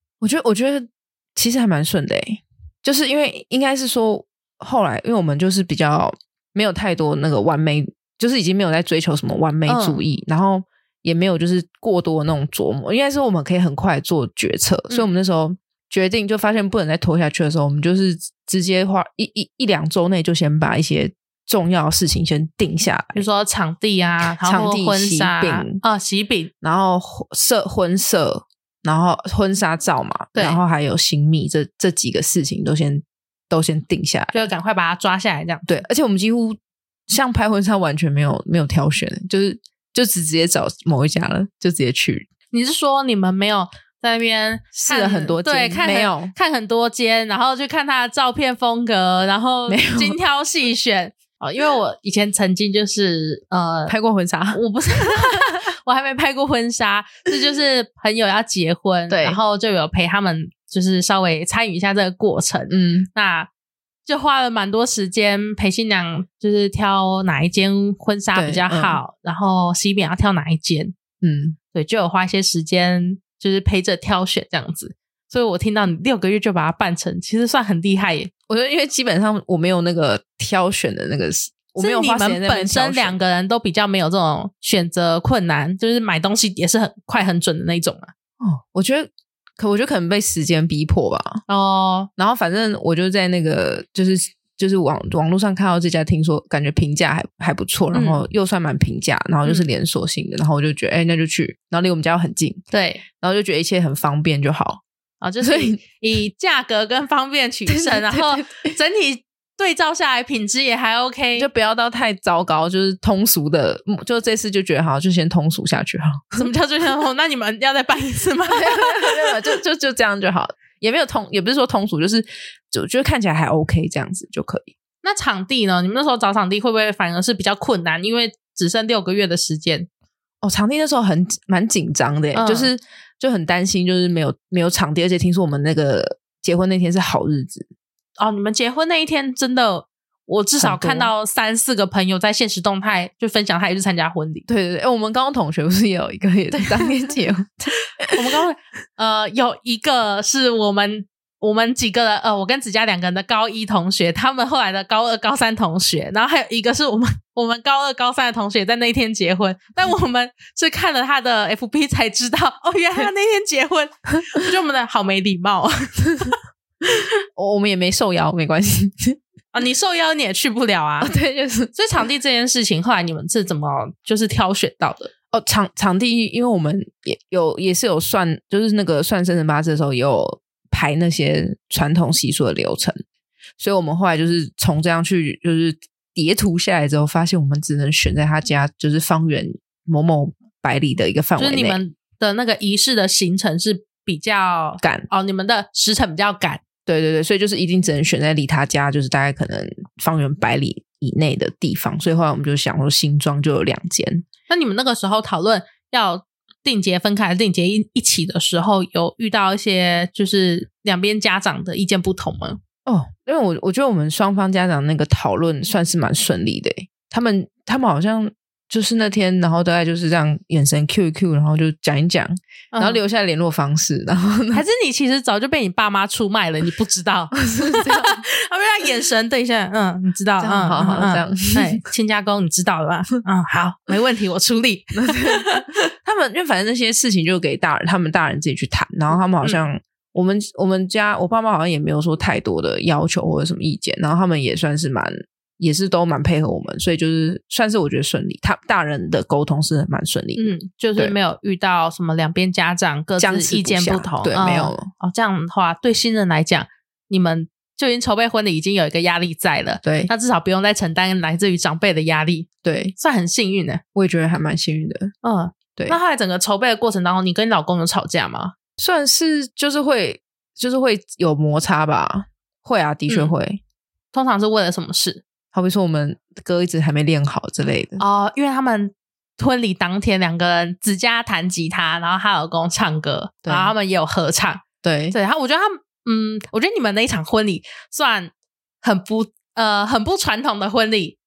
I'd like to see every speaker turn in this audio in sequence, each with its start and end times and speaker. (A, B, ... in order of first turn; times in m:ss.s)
0:00.2-0:23.2 A
0:09.6-0:10.0 B
0:23.1-0:26.5 B
0:24.4-0:25.8 A
0:26.6-0:34.3 A
0:30.3-0:30.6 B
0:34.3-0:35.7 B
0:35.7-0:36.6 A
0:37.1-0:42.3 A
0:42.5-0:53.9 B
0:44.8-0:46.3 A
0:49.7-0:50.2 A
0:53.9-0:54.6 A
0:54.5-1:03.5 B
0:55.2-0:55.4 A
0:59.1-0:59.4 A
1:02.7-1:03.1 A
1:04.0-1:10.9 B
1:08.3-1:09.0 A
1:11.2-1:11.6 A
1:11.7-1:18.3 B
1:18.5-1:23.2 A
1:21.8-1:28.1 B
1:28.4-1:31.4 A
1:31.5-1:32.1 B
1:32.2-1:42.6 A
1:37.9-1:38.2 B
1:42.7-1:43.0 B
1:43.2-1:44.8 A
1:45.2-1:51.5 B
1:45.4-1:45.8 A
1:47.7-1:48.7 A
1:51.4-1:56.5 A
1:56.4-1:59.3 B
1:58.5-2:04.7 A
2:05.0-2:09.9 B
2:10.4-2:17.6 A
2:12.3-2:12.7 B
2:18.2-2:24.4 B
2:20.6-2:21.1 A
2:24.5-2:28.4 A
2:26.6-2:26.8 B
2:28.1-2:46.4 B
2:47.4-2:49.2 A
2:49.5-2:51.1 B
2:51.0-2:51.7 A
2:51.7-2:55.1 B
2:55.3-3:03.0 A
3:03.6-3:11.8 A
3:11.4-3:16.6 B
3:14.8-3:15.1 A
3:16.8-3:24.2 A
3:24.5-3:32.6 B
3:32.8-3:44.6 A
3:42.7-3:43.0 B
3:44.5-3:55.8 B
3:47.4-3:48.2 A
3:50.4-3:51.8 A
3:55.0-4:11.1 A
4:10.4-4:23.8 B
4:13.2-4:14.9 A
4:19.8-4:20.1 A
4:22.6-4:22.9 A
4:23.9-4:25.1 A
4:25.2-4:28.5 B
4:28.8-4:33.6 A
4:33.1-4:33.3 B
4:34.1-4:35.2 B
4:35.5-4:38.0 A
4:38.0-4:51.2 B
4:43.4-4:43.7 A
4:44.8-4:45.2 A